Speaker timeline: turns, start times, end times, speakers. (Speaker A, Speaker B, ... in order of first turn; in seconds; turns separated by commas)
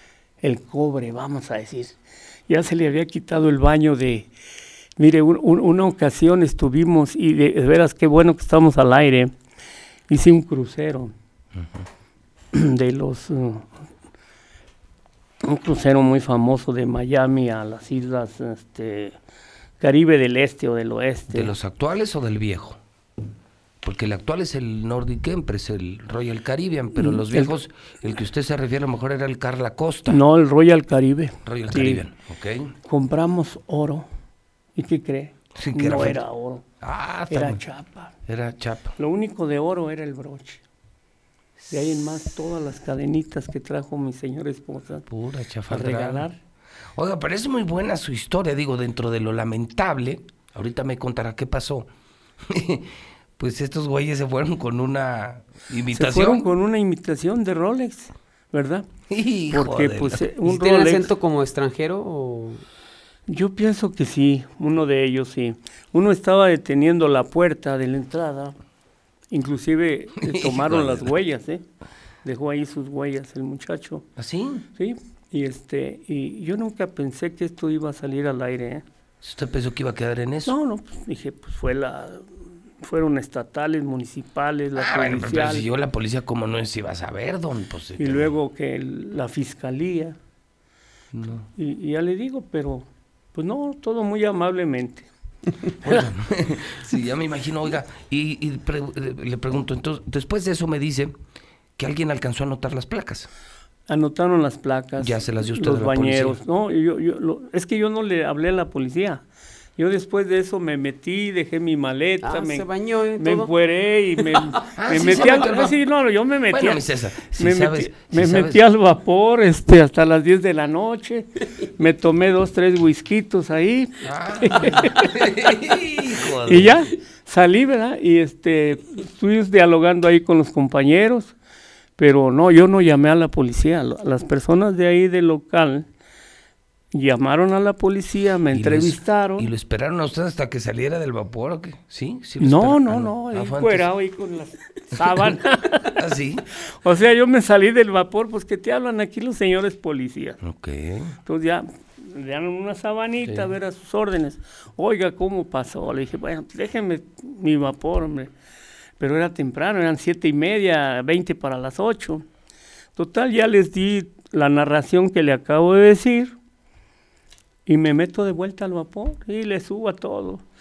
Speaker A: 0.4-4.3, Speaker A: 5.0-9.3, Speaker A: 10.1-11.1, Speaker A: 12.5-13.7, Speaker A: 15.4-19.2, Speaker A: 19.8-21.6, Speaker B: 21.3-22.8, Speaker B: 23.8-30.2, Speaker A: 26.9-27.5, Speaker A: 30.1-32.1, Speaker B: 31.4-32.7, Speaker A: 32.8-34.1, Speaker A: 34.8-36.6, Speaker B: 35.5-36.2, Speaker B: 36.8-37.6, Speaker A: 37.3-38.1, Speaker B: 38.2-39.0, Speaker A: 39.0-40.6, Speaker A: 41.7-45.1, Speaker B: 45.1-46.3, Speaker A: 45.7-46.4, Speaker B: 47.0-51.9, Speaker B: 52.4-56.5, Speaker A: 55.9-58.9, Speaker B: 59.1-60.3, Speaker A: 59.5-61.1, Speaker C: 60.4-62.6, Speaker A: 63.3-68.6, Speaker A: 69.3-71.6, Speaker B: 70.2-71.1, Speaker A: 72.2-74.1, Speaker B: 74.2-74.7, Speaker A: 74.8-78.8, Speaker B: 79.2-80.5, Speaker A: 80.5-85.7, Speaker B: 84.7-88.3, Speaker A: 88.0-90.2, Speaker B: 91.1-91.5, Speaker A: 91.5-95.1, Speaker B: 95.8-101.1, Speaker B: 101.8-103.3, Speaker A: 103.9-109.2, Speaker B: 105.0-106.4, Speaker A: 109.8-125.5, Speaker C: 112.2-113.5, Speaker B: 114.7-115.8, Speaker B: 116.5-118.6, Speaker B: 124.0-126.8, Speaker A: 126.2-131.3, Speaker A: 132.0-135.9, Speaker A: 136.9-139.5, Speaker B: 138.5-143.9, Speaker A: 142.4-146.0, Speaker B: 145.8-146.5, Speaker A: 146.7-150.4, Speaker B: 150.4-151.2, Speaker A: 151.2-158.3, Speaker B: 153.2-153.5, Speaker A: 159.0-162.2, Speaker A: 162.9-166.3, Speaker A: 167.7-170.4